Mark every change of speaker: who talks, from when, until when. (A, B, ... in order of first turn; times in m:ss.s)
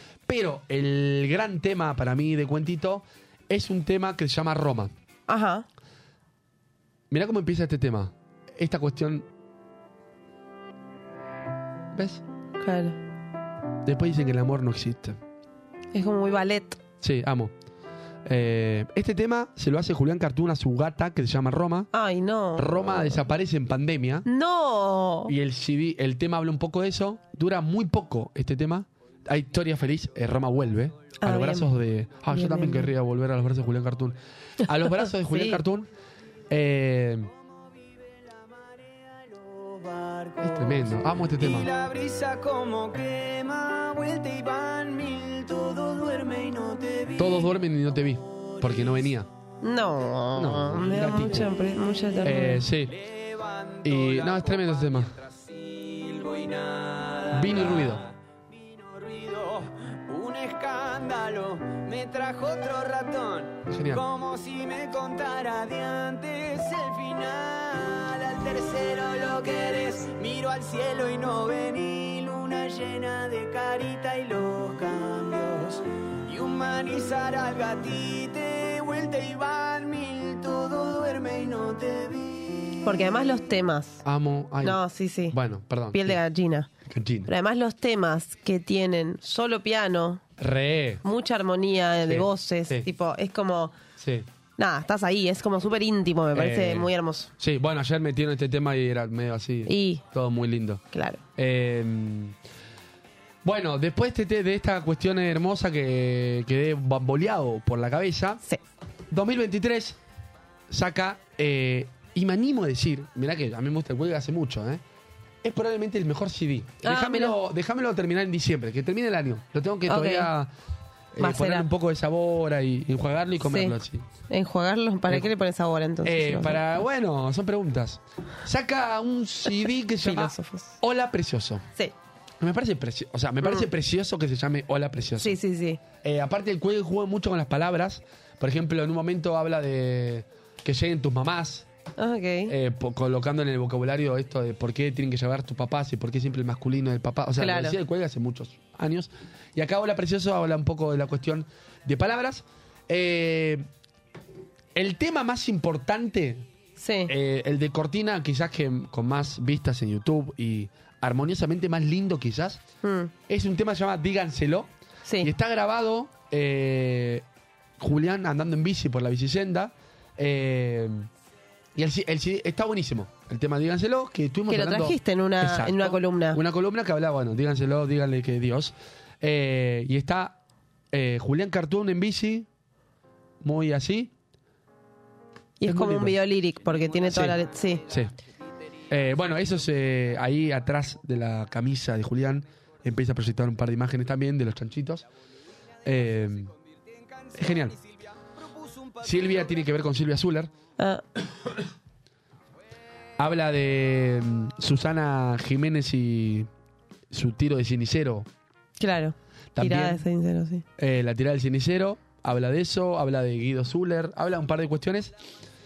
0:00.3-0:04.9 A
0:05.3-0:05.6 B
0:07.1-0:09.2 A
0:11.9-0:12.2 A
0:12.6-0:13.0 B
0:13.8-0:15.2 A
0:15.9-0:16.8 B
0:17.0-0:17.5 A
0:18.2-0:21.9 A
0:21.9-0:23.2 B
0:22.6-0:24.2 A
0:24.2-0:25.3 B
0:25.3-0:35.9 A
0:31.2-0:31.7 B
0:32.3-0:32.9 B
0:35.1-0:35.6 B
0:36.5-0:37.3 A
0:38.3-0:40.8 C
0:40.4-0:41.7 A
0:41.4-0:47.5 C
0:47.2-0:49.3 A
0:48.3-0:48.9 C
0:49.6-0:52.6 B
0:50.3-0:51.5 A
0:52.2-0:52.9 A
0:52.9-1:22.8 C
0:53.8-0:55.2 A
0:57.3-0:58.0 A
1:03.7-1:04.0 A
1:22.8-1:24.0 B
1:24.0-1:24.8 A
1:24.6-1:25.4 B
1:25.3-1:26.2 A
1:25.9-1:26.7 B
1:26.9-1:27.3 A
1:27.3-1:30.2 B
1:30.4-1:31.0 A
1:31.0-1:33.8 B
1:32.0-1:32.9 A
1:34.0-1:34.3 A
1:34.6-1:37.3 B
1:36.3-1:40.8 A
1:39.7-1:40.0 B
1:40.9-1:41.2 B
1:41.4-1:42.4 A
1:43.4-1:48.4 A
1:49.1-1:50.0 A
1:50.7-1:54.8 A
1:55.4-2:00.5 A
1:56.8-1:57.4 B
1:59.9-2:00.3 B
2:01.1-2:04.1 A
2:01.2-2:01.7 B
2:03.4-2:03.7 B
2:04.3-2:06.8 B
2:06.0-2:11.6 A
2:10.0-2:10.8 B
2:12.4-2:15.4 A
2:15.2-2:15.8 B
2:16.0-2:21.7 A
2:22.0-2:22.5 B
2:22.5-2:33.7 A
2:27.4-2:27.8 B
2:34.7-2:36.5 A
2:36.8-2:37.1 B
2:37.1-2:42.6 A
2:42.8-2:43.1 B
2:43.3-2:47.2 A
2:47.8-2:51.1 A
2:51.8-3:00.4 A
2:54.5-2:56.4 B
3:00.9-3:02.5 A
3:03.4-3:04.1 A
3:05.6-3:07.8 B
3:05.6-3:06.2 A
3:07.0-3:08.1 A
3:08.9-3:15.0 A
3:15.8-3:16.5 A
3:16.7-3:17.8 C
3:17.3-3:17.7 A
3:18.4-3:19.5 C
3:19.0-3:20.5 A
3:20.8-3:21.0 B
3:23.2-3:26.5 A
3:27.1-3:28.3 A
3:28.8-3:30.6 B
3:29.6-3:30.0 A
3:30.8-3:35.1 A